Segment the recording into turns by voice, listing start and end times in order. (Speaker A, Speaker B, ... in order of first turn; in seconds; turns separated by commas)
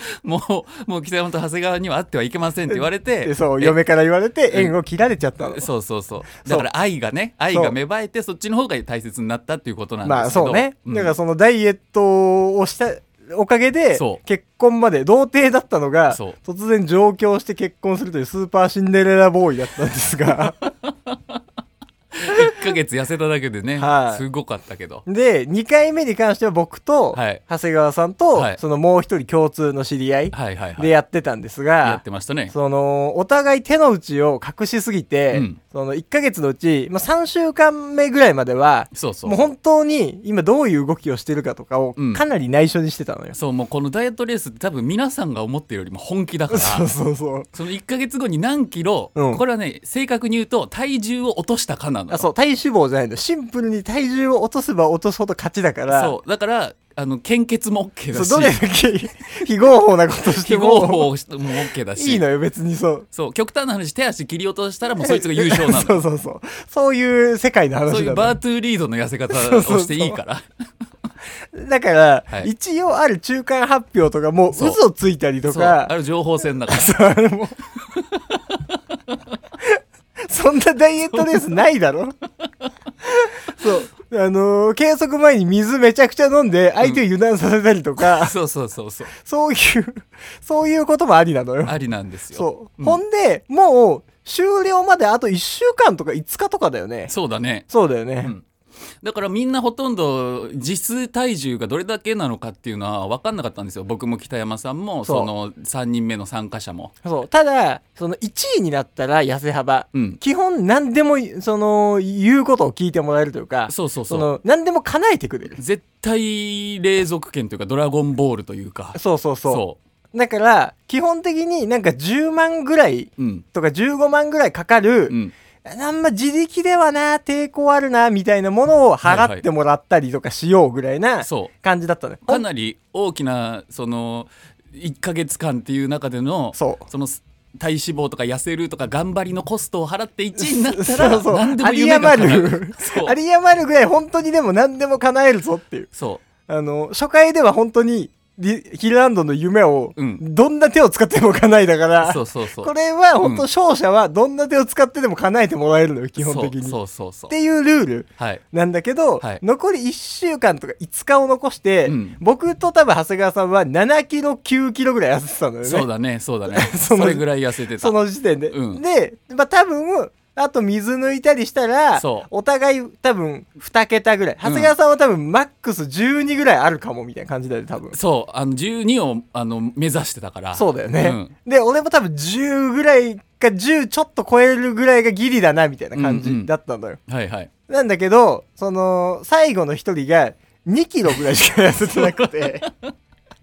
Speaker A: 0.2-3.8, Speaker B: 2.7-5.7, Speaker A: 5.5-11.1, Speaker B: 10.0-20.6, Speaker A: 13.9-14.2, Speaker A: 20.6-21.3, Speaker A: 22.1-25.0, Speaker B: 23.8-24.2, Speaker B: 25.1-43.4, Speaker A: 27.1-27.4, Speaker A: 28.3-28.6, Speaker A: 30.3-30.9, Speaker A: 31.8-32.5, Speaker A: 35.3-35.6, Speaker A: 38.9-39.4, Speaker A: 42.0-42.2, Speaker A: 43.4-46.9, Speaker B: 46.5-47.5, Speaker A: 47.5-52.3, Speaker B: 49.1-49.4, Speaker B: 52.1-56.1, Speaker A: 55.9-58.6, Speaker B: 58.1-61.1, Speaker A: 60.4-62.2, Speaker B: 61.9-63.1, Speaker A: 63.1-66.0, Speaker B: 65.0-68.3, Speaker A: 67.9-70.4, Speaker B: 69.3-70.2, Speaker B: 71.5-75.9, Speaker A: 74.5-74.8, Speaker A: 75.4-76.9, Speaker B: 76.7-77.6, Speaker A: 77.9-79.2, Speaker B: 79.6-82.1, Speaker A: 82.4-82.7, Speaker B: 83.0-88.3, Speaker A: 88.0-89.1, Speaker B: 89.1-91.7, Speaker A: 91.7-93.0, Speaker B: 92.3-97.1, Speaker A: 97.1-97.7, Speaker B: 97.7-98.3, Speaker A: 99.0-106.9, Speaker B: 105.0-105.3, Speaker B: 107.0-115.6, Speaker A: 109.9-110.2, Speaker A: 113.7-114.3, Speaker A: 115.5-119.8, Speaker B: 118.9-132.4, Speaker A: 123.2-123.4, Speaker A: 129.0-129.4, Speaker A: 131.2-131.5, Speaker A: 132.3-143.1, Speaker B: 136.6-136.8, Speaker B: 140.3-145.9, Speaker A: 145.9-146.2, Speaker B: 146.5-156.8, Speaker A: 150.0-150.2, Speaker A: 152.0-153.4, Speaker A: 156.2-157.3, Speaker B: 157.3-165.9, Speaker A: 161.8-162.2, Speaker A: 165.6-167.9, Speaker B: 166.5-167.2, Speaker B: 167.8-177.9, Speaker A: 168.5-168.8, Speaker A: 171.9-172.3, Speaker A: 174.4-174.7, Speaker A: 177.9-181.3, Speaker B: 180.5-187.0, Speaker A: 185.9-186.5, Speaker A: 187.1-187.5, Speaker B: 187.7-192.7, Speaker A: 191.9-192.9